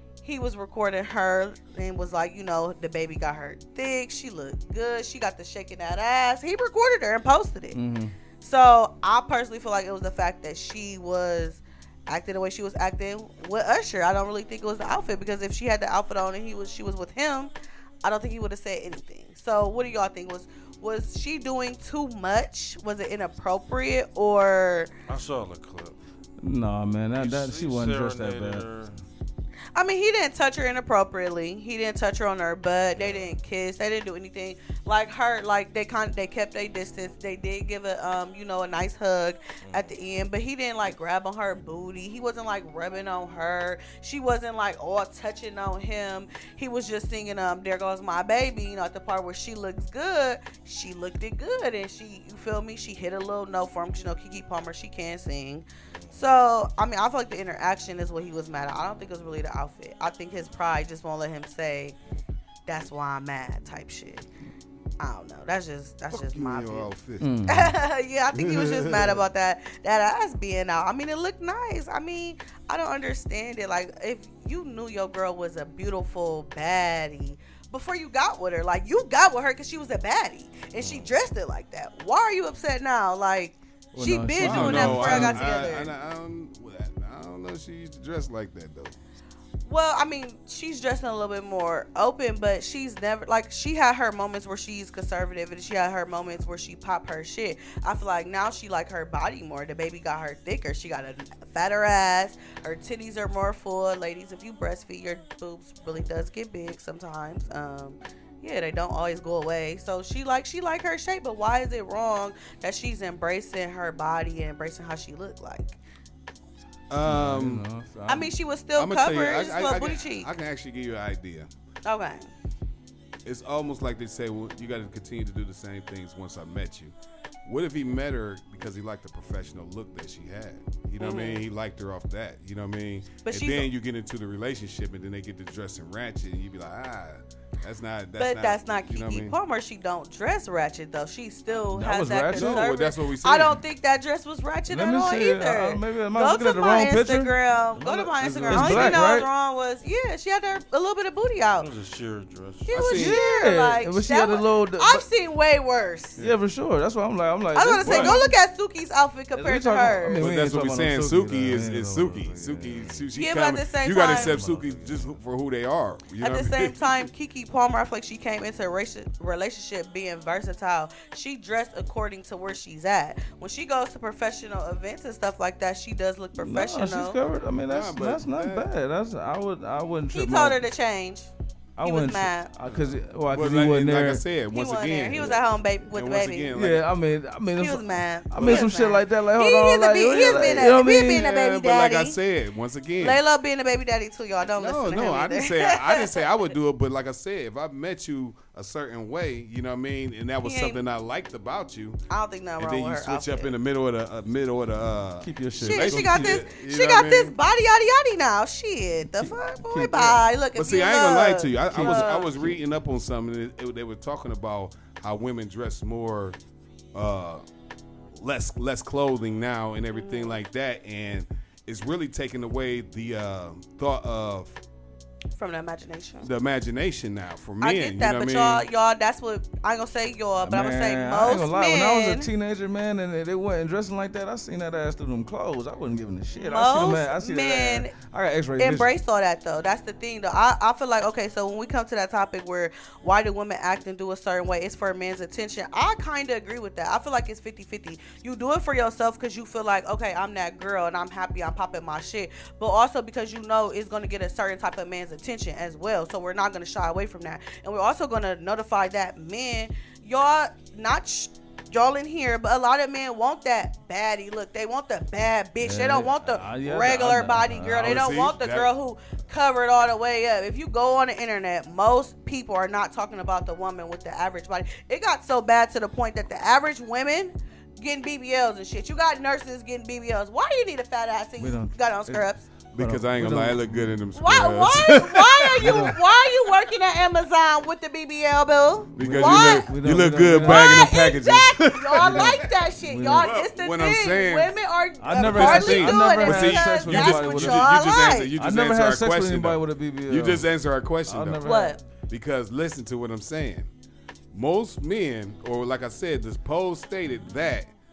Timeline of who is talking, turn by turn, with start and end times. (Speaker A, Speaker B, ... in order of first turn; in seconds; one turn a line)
Speaker A: 0.2-7.8
Speaker B: 7.7-8.1
Speaker A: 8.4-17.5
Speaker A: 18.0-24.9
Speaker C: 25.1-26.0
Speaker B: 26.4-28.7
Speaker C: 27.1-29.0
Speaker A: 29.7-61.9
Speaker C: 32.9-33.3
Speaker C: 39.6-39.9
Speaker C: 55.9-56.2
Speaker A: 62.7-64.2
Speaker A: 65.0-66.9
Speaker D: 66.1-67.4
Speaker B: 67.2-67.8
Speaker A: 67.5-85.9
Speaker D: 68.3-69.2
Speaker C: 80.8-81.1
Speaker B: 83.9-85.5
Speaker D: 84.4-88.9
Speaker A: 89.7-115.8
Speaker D: 116.9-117.7
Speaker B: 117.0-118.3
Speaker A: 118.1-120.3
Speaker D: 118.8-121.5
Speaker A: 121.8-122.3
Speaker D: 123.2-126.9
Speaker D: 127.4-139.3
Speaker A: 131.0-131.4
Speaker A: 133.2-133.7
Speaker A: 138.2-151.7
Speaker B: 141.7-142.6
Speaker D: 142.3-143.6
Speaker B: 144.7-147.3
Speaker D: 147.9-149.0
Speaker B: 148.5-149.3
Speaker C: 151.6-152.7
Speaker A: 152.7-156.2
Speaker D: 152.7-153.2
Speaker B: 152.9-155.1
Speaker B: 156.2-158.3
Speaker A: 157.5-160.2
Speaker B: 159.3-163.0
Speaker D: 160.1-166.8
Speaker A: 163.1-164.3
Speaker B: 164.0-165.1
Speaker A: 166.2-177.2
Speaker B: 176.3-180.6
Speaker D: 177.7-178.7
Speaker A: 180.1-182.5
Speaker B: 181.8-184.2
Speaker D: 182.7-186.8
Speaker A: 184.5-186.5
Speaker B: 186.5-191.3
Speaker A: 187.6-192.2
Speaker D: 188.3-188.7
Speaker D: 190.2-193.2
Speaker A: 193.0-196.2
Speaker D: 194.6-202.0
Speaker A: 200.4-200.8
Speaker A: 202.1-203.5
Speaker D: 202.6-207.3
Speaker B: 205.2-206.4
Speaker A: 205.6-212.3
Speaker B: 209.0-210.2
Speaker D: 210.5-216.4
Speaker B: 211.7-212.6
Speaker D: 216.9-217.4
Speaker D: 218.1-224.6
Speaker A: 219.9-220.4
Speaker A: 225.3-226.3
Speaker D: 226.2-228.7
Speaker A: 227.6-232.3
Speaker B: 230.4-238.9
Speaker A: 236.3-237.9
Speaker A: 238.6-282.4
Speaker B: 265.6-268.0
Speaker D: 267.8-268.7
Speaker B: 281.4-284.0
Speaker D: 282.7-285.9
Speaker A: 284.1-289.7
Speaker B: 285.6-285.9
Speaker B: 288.9-290.7
Speaker D: 289.0-292.5
Speaker A: 290.4-298.3
Speaker B: 292.0-293.3
Speaker D: 293.1-294.5
Speaker B: 295.0-297.7
Speaker D: 295.2-301.4
Speaker B: 298.4-301.8
Speaker A: 301.4-301.8
Speaker D: 302.1-303.7
Speaker D: 304.3-307.7